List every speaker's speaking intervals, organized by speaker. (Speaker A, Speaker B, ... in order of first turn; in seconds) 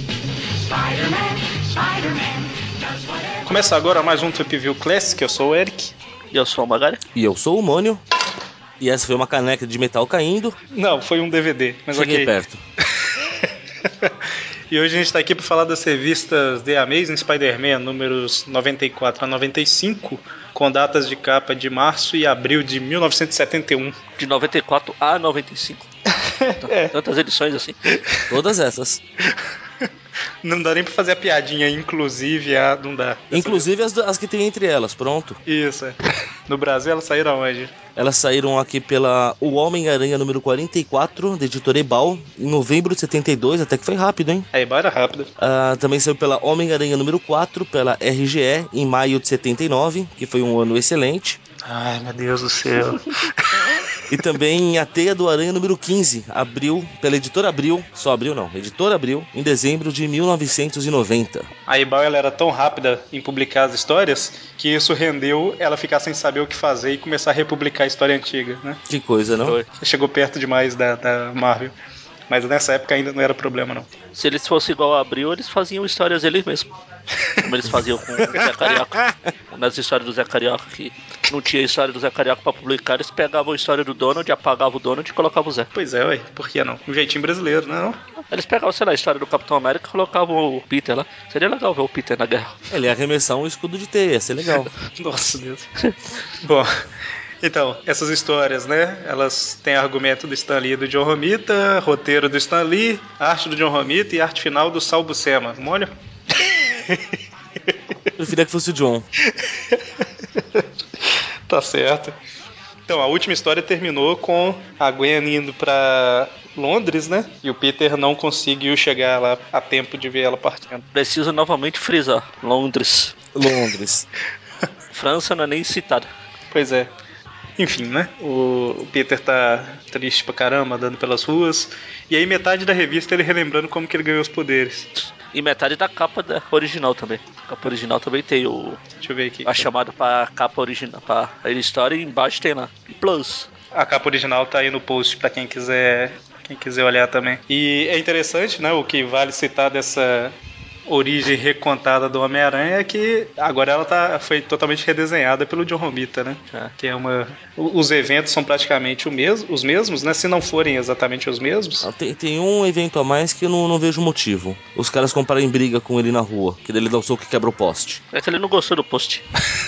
Speaker A: 3.4-5.9, 10.7-12.3, 12.8-14.2, 14.7-23.9, 26.2-26.9, 27.9-28.3, 29.2-29.9, 30.4-33.6, 35.5-37.7, 44.5-45.3, 51.6-54.2, 61.7-68.8, 69.7-71.7, 72.3-73.9, 85.7-88.0, 94.8-95.7, 96.4-96.8, 97.4-108.1, 109.2-112.1, 112.9-120.8, 126.5-126.9, 127.6-134.9, 139.0-139.7, 143.7-150.3, 150.9-161.8
Speaker B: 6.3-7.0, 24.2-25.9, 26.6-27.8, 74.1-76.7, 77.4-85.7, 88.3-92.6, 120.9-123.1, 124.9-126.1, 135.0-138.8, 139.4-143.5, 168.1-169.2
Speaker C: 7.1-8.0, 8.8-10.6, 11.9-12.6, 28.3-29.0, 33.3-35.4, 38.0-44.5, 45.4-51.4, 54.1-61.5, 68.9-69.6, 78.2-79.3, 92.7-94.7, 108.2-109.0, 123.3-124.0, 161.8-168.0